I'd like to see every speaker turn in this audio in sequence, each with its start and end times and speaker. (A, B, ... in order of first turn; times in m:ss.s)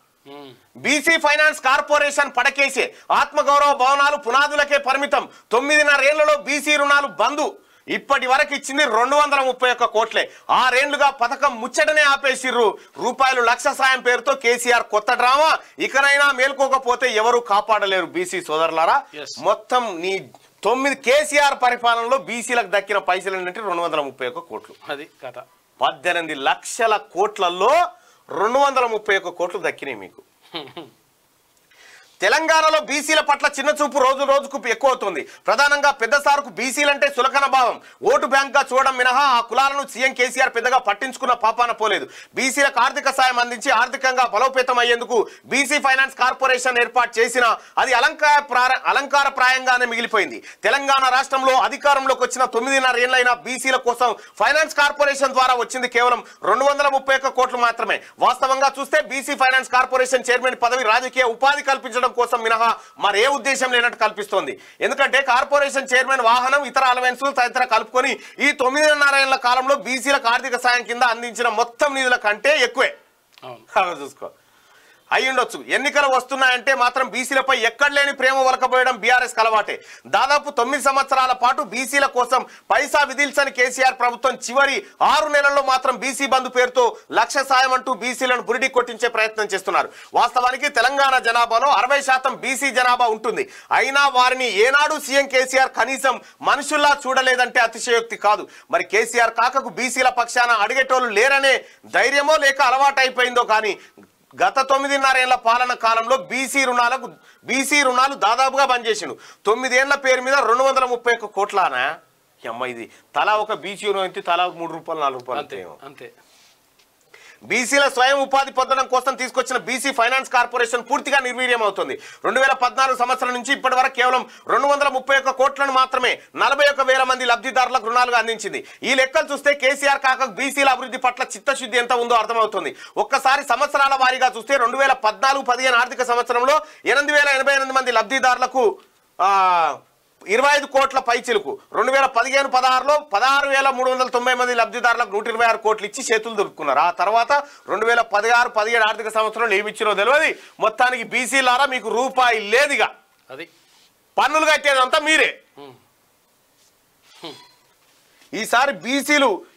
0:00.3-0:00.5 A
0:00.8-0:24.8 B
0:19.2-0:19.4 A
0:24.8-0:25.4 A
0:25.8-0:27.8 B
0:28.4-0:30.2 B
0:30.5-0:30.9 A
0:32.2-1:12.9 B
1:13.7-1:14.3 B
1:15.2-1:43.8 B
1:44.4-1:55.8 B
1:55.3-1:56.1 A
1:57.5-2:18.6 B
2:19.2-2:19.8 B
2:20.3-2:32.9 B
2:34.2-2:35.3 B
2:38.4-2:39.3 B